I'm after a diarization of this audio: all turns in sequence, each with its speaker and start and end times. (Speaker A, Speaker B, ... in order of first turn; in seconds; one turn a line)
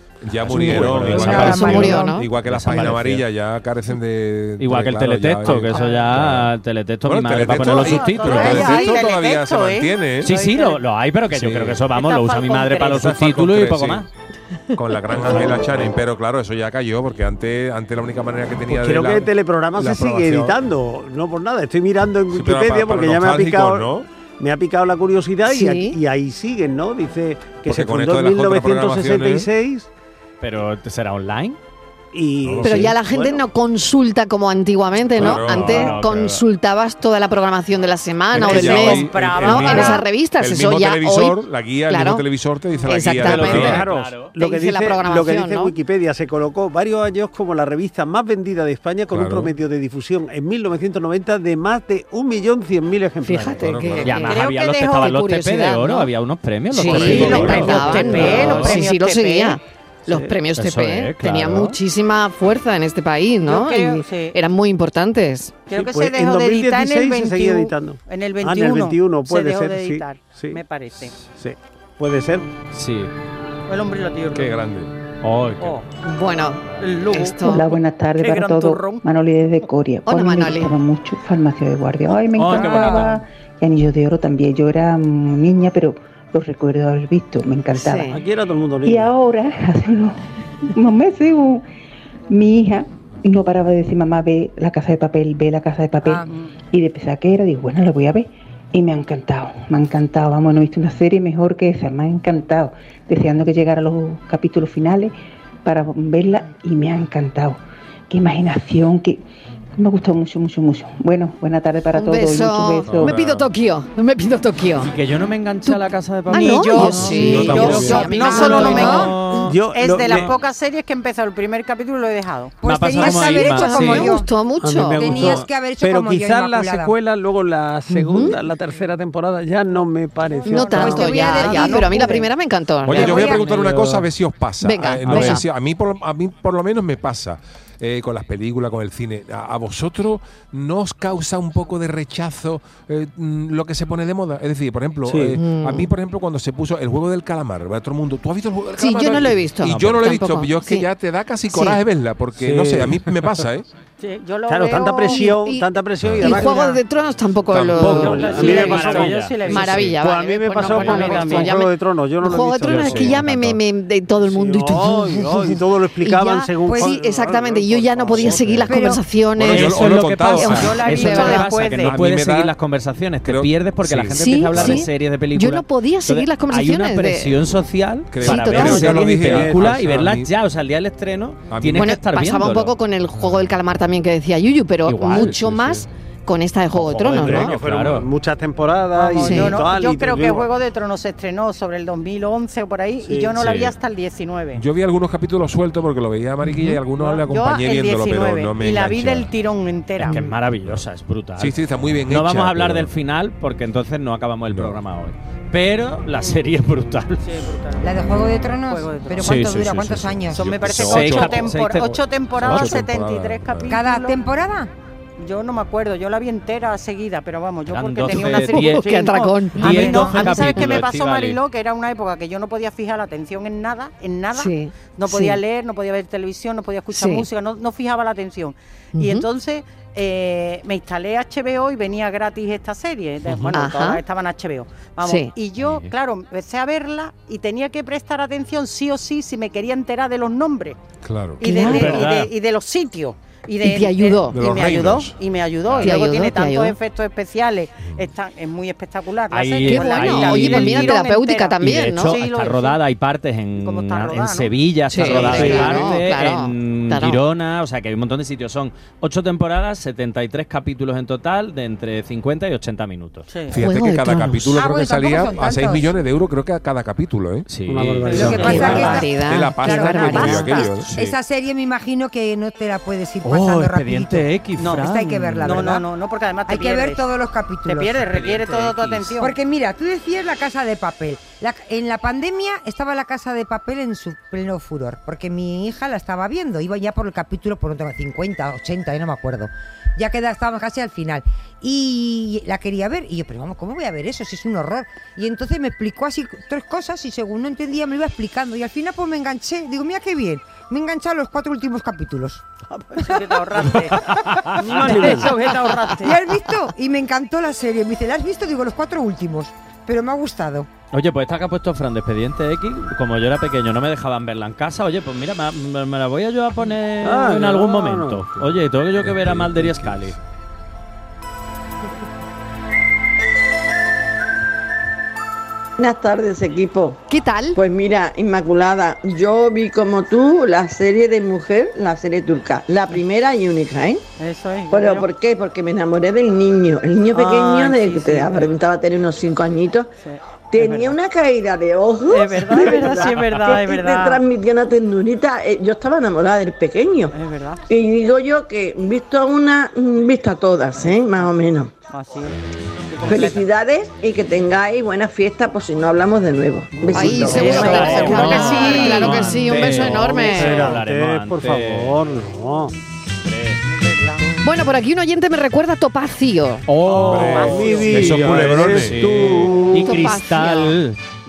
Speaker A: 0.2-6.5
Speaker B: 0.4-1.8
Speaker C: 0.5-2.2
Speaker D: 1.3-2.3
Speaker B: 2.4-3.2
Speaker B: 4.6-8.9
Speaker A: 7.0-10.3
Speaker E: 7.5-10.8
Speaker B: 10.2-14.1
Speaker A: 11.3-11.8
Speaker E: 11.8-13.2
Speaker A: 12.9-14.1
Speaker A: 14.7-20.6
Speaker F: 18.7-29.9
Speaker A: 22.3-24.1
Speaker D: 25.4-26.0
Speaker A: 27.6-29.5
Speaker B: 30.4-31.6
Speaker F: 32.1-33.4
Speaker A: 32.4-32.9
Speaker D: 32.6-42.2
Speaker A: 35.1-36.0
Speaker B: 35.2-36.4
Speaker A: 38.3-43.9
Speaker E: 38.4-40.0
Speaker D: 42.8-43.8
Speaker B: 43.1-44.3
Speaker F: 43.4-54.0
Speaker D: 44.4-45.7
Speaker A: 49.1-49.5
Speaker D: 53.2-56.1
Speaker A: 53.5-54.3
Speaker B: 54.0-58.9
Speaker E: 54.2-55.1
Speaker D: 56.7-65.5
Speaker E: 56.9-59.6
Speaker A: 56.9-57.7
Speaker F: 56.9-57.4
Speaker F: 58.1-58.4
Speaker F: 60.1-60.3
Speaker B: 60.6-61.8
Speaker E: 63.5-64.3
Speaker E: 65.7-71.2
Speaker F: 65.7-70.6
Speaker F: 71.3-72.5
Speaker B: 72.7-73.1
Speaker E: 73.7-74.6
Speaker A: 74.3-74.9
Speaker B: 75.2-75.8
Speaker E: 75.6-75.8
Speaker D: 76.0-77.7
Speaker E: 76.8-79.0
Speaker G: 77.4-88.2
Speaker D: 80.0-80.7
Speaker B: 82.3-83.2
Speaker C: 82.5-83.1
Speaker D: 87.7-88.2
Speaker F: 88.0-89.1
Speaker G: 88.8-90.2
Speaker G: 90.7-91.6
Speaker G: 92.3-105.1
Speaker C: 96.0-96.3
Speaker G: 105.6-109.2
Speaker G: 109.8-113.1
Speaker D: 111.9-114.9
Speaker A: 112.9-113.5
Speaker B: 114.8-119.6
Speaker D: 115.7-119.1
Speaker E: 116.3-119.2
Speaker A: 117.1-118.2
Speaker F: 117.5-120.3
Speaker C: 118.6-119.1
Speaker E: 119.7-122.5
Speaker B: 120.1-120.3
Speaker C: 122.6-124.3
Speaker B: 122.6-124.2
Speaker D: 123.3-125.3
Speaker F: 124.6-131.8
Speaker C: 124.9-126.9
Speaker D: 127.9-128.3
Speaker E: 130.4-132.2
Speaker D: 130.5-133.4
Speaker C: 130.5-132.3
Speaker A: 132.8-153.7
Speaker C: 132.9-133.4
Speaker F: 133.4-134.0
Speaker D: 134.6-135.4
Speaker B: 135.1-135.4
Speaker F: 145.0-145.4
Speaker D: 145.4-145.9
Speaker D: 148.8-150.9
Speaker B: 149.6-150.1
Speaker D: 151.5-151.8
Speaker F: 152.3-153.4
Speaker E: 154.0-155.4
Speaker F: 154.4-156.8
Speaker D: 155.0-158.7
Speaker A: 156.0-156.4
Speaker E: 156.4-156.7
Speaker A: 157.5-158.6
Speaker B: 157.8-159.6
Speaker F: 157.8-163.2
Speaker E: 158.0-160.0
Speaker D: 159.5-171.5
Speaker E: 160.6-161.5
Speaker B: 162.7-163.2
Speaker F: 164.2-168.7
Speaker C: 166.6-166.9
Speaker A: 168.3-168.6
Speaker C: 168.6-169.0
Speaker A: 169.3-172.5
Speaker B: 169.4-182.7
Speaker E: 170.4-172.0
Speaker A: 173.2-174.8
Speaker D: 174.1-177.4
Speaker A: 178.1-180.3
Speaker D: 178.2-178.9
Speaker F: 178.5-180.0
Speaker A: 181.5-182.0
Speaker D: 181.8-187.5
Speaker A: 183.2-183.5
Speaker B: 184.8-185.8
Speaker A: 185.1-185.8
Speaker F: 186.8-190.5
Speaker B: 187.1-188.1
Speaker E: 188.9-194.6
Speaker D: 189.2-189.6
Speaker F: 193.0-193.4
Speaker B: 193.4-193.7
Speaker A: 194.5-199.3
Speaker E: 197.0-200.2
Speaker B: 200.1-207.2
Speaker A: 201.4-202.9
Speaker A: 204.5-204.8
Speaker E: 206.2-206.4
Speaker E: 207.2-208.0
Speaker C: 207.8-210.4
Speaker E: 208.6-209.5
Speaker B: 209.2-212.9
Speaker E: 210.3-214.2
Speaker A: 210.4-211.6
Speaker A: 212.3-213.8
Speaker C: 213.7-214.7
Speaker E: 215.2-240.8
Speaker B: 217.7-221.4
Speaker D: 218.4-220.6
Speaker D: 224.3-225.4
Speaker D: 226.9-227.2
Speaker D: 228.9-229.2
Speaker D: 233.5-234.0
Speaker D: 235.0-235.3
Speaker B: 235.6-235.9
Speaker A: 241.0-241.4
Speaker E: 241.4-252.8
Speaker D: 241.4-242.0
Speaker B: 241.5-242.3
Speaker D: 243.6-244.3
Speaker A: 244.3-245.9
Speaker D: 245.8-246.7
Speaker A: 247.8-248.0
Speaker B: 249.3-251.0
Speaker D: 249.7-252.2
Speaker B: 251.6-263.3
Speaker E: 253.6-255.9
Speaker D: 254.9-257.2
Speaker E: 263.3-263.6
Speaker A: 263.5-267.5
Speaker D: 263.5-264.6
Speaker C: 264.5-265.9
Speaker B: 267.5-269.0
Speaker F: 267.6-269.1
Speaker E: 268.1-268.5
Speaker C: 268.1-275.8
Speaker A: 268.4-270.9
Speaker D: 268.5-270.6
Speaker B: 270.8-271.2
Speaker B: 273.2-275.8
Speaker E: 274.6-277.0
Speaker C: 276.5-278.0
Speaker E: 277.6-279.3
Speaker B: 278.0-279.1
Speaker C: 279.2-302.4
Speaker E: 302.9-306.2
Speaker B: 304.1-304.6
Speaker F: 304.6-305.4
Speaker C: 304.9-305.4
Speaker C: 306.0-310.7
Speaker B: 310.9-320.1
Speaker F: 317.0-318.4
Speaker A: 319.0-320.0
Speaker H: 325.8-327.0
Speaker D: 327.1-327.6
Speaker H: 327.5-334.0
Speaker E: 334.2-335.1
Speaker H: 334.7-339.9
Speaker E: 337.1-338.5
Speaker E: 340.0-340.9
Speaker H: 340.5-347.1
Speaker E: 342.1-344.2
Speaker E: 347.1-347.6
Speaker H: 347.7-351.7
Speaker E: 351.9-352.4
Speaker E: 352.9-353.4
Speaker H: 353.0-358.3
Speaker E: 356.8-359.3
Speaker D: 356.9-360.8
Speaker F: 357.1-357.7
Speaker B: 357.2-362.0
Speaker F: 359.6-362.7
Speaker B: 363.2-363.6
Speaker E: 363.7-364.2
Speaker D: 364.4-366.6
Speaker B: 366.7-371.0
Speaker A: 366.9-369.1
Speaker F: 367.0-370.0
Speaker E: 367.0-368.1
Speaker D: 369.8-370.8